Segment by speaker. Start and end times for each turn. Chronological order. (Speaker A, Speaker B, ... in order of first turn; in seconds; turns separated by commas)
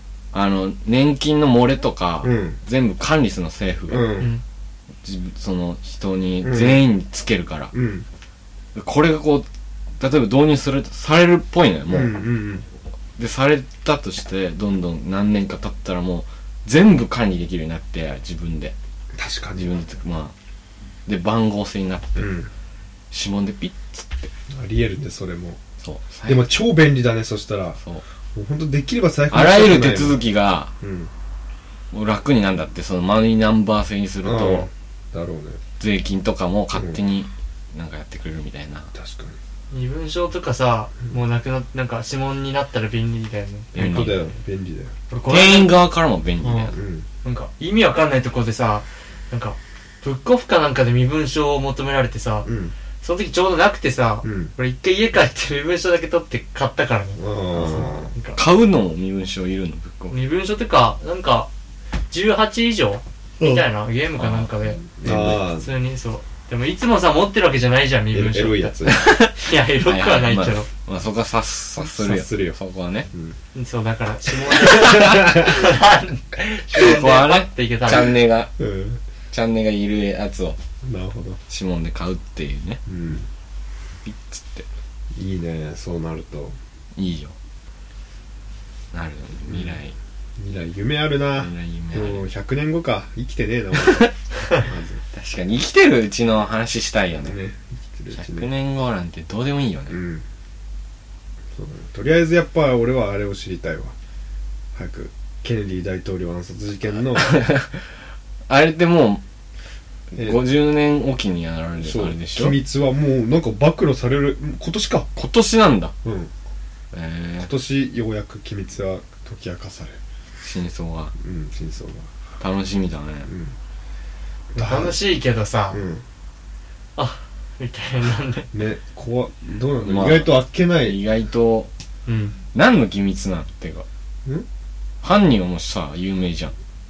Speaker A: 0.3-4.1, Speaker B: 2.2-2.6, Speaker B: 3.9-4.3, Speaker A: 5.0-7.7, Speaker B: 6.4-6.8, Speaker B: 7.7-8.1, Speaker A: 8.8-9.5, Speaker A: 10.0-12.2, Speaker B: 11.9-12.7, Speaker A: 13.2-18.7, Speaker B: 19.2-19.8, Speaker A: 19.6-20.3, Speaker A: 21.1-22.3, Speaker B: 22.2-22.5, Speaker A: 23.1-24.3, Speaker B: 24.5-25.6, Speaker A: 25.8-26.5, Speaker B: 26.2-27.8, Speaker B: 28.4-30.2, Speaker A: 29.3-30.7, Speaker B: 30.8-31.1, Speaker A: 31.9-34.7, Speaker B: 34.2-35.6, Speaker A: 35.8-38.9, Speaker B: 36.7-37.0, Speaker B: 38.9-39.4, Speaker C: 39.7-44.3, Speaker A: 43.7-44.2, Speaker B: 43.8-44.9, Speaker C: 45.1-45.8, Speaker A: 45.2-46.7, Speaker C: 46.4-46.7, Speaker B: 46.7-47.1, Speaker C: 47.2-52.5, Speaker B: 52.5-52.7, Speaker C: 53.0-58.4, Speaker B: 54.2-54.5, Speaker B: 57.2-58.1, Speaker A: 57.6-60.1, Speaker C: 60.1-61.5, Speaker C: 62.1-64.8, Speaker B: 63.4-63.7, Speaker A: 64.2-65.4, Speaker B: 65.0-65.7, Speaker C: 65.5-70.7, Speaker B: 68.1-69.1, Speaker A: 68.9-73.1, Speaker B: 71.8-72.6, Speaker C: 73.5-78.2, Speaker A: 74.6-75.2, Speaker B: 75.0-75.3, Speaker A: 76.7-78.5, Speaker B: 78.6-79.0, Speaker A: 79.3-80.6, Speaker B: 80.8-81.4, Speaker A: 81.5-82.8, Speaker B: 82.9-83.3, Speaker A: 84.0-84.7, Speaker B: 85.2-86.6, Speaker A: 87.0-87.3, Speaker A: 88.9-90.0, Speaker B: 89.5-89.8, Speaker B: 90.4-95.0, Speaker A: 91.4-92.2, Speaker A: 95.1-97.4, Speaker B: 97.2-98.5, Speaker A: 98.1-100.0, Speaker B: 99.9-100.2, Speaker B: 101.6-103.9, Speaker B: 104.8-107.3, Speaker A: 107.2-107.9, Speaker A: 108.5-109.2, Speaker A: 110.1-112.6, Speaker B: 110.2-110.4, Speaker B: 111.8-115.1, Speaker A: 115.2-115.9, Speaker B: 116.0-116.3, Speaker A: 116.9-117.5, Speaker B: 117.4-120.0, Speaker A: 120.4-121.1, Speaker B: 121.2-122.1, Speaker A: 122.4-123.3, Speaker B: 123.3-123.5, Speaker B: 124.5-125.0, Speaker C: 124.5-125.8, Speaker B: 125.7-126.0, Speaker C: 127.0-128.5, Speaker B: 128.5-131.0, Speaker A: 129.8-131.7, Speaker C: 132.1-132.4, Speaker A: 132.5-133.8, Speaker A: 135.0-136.5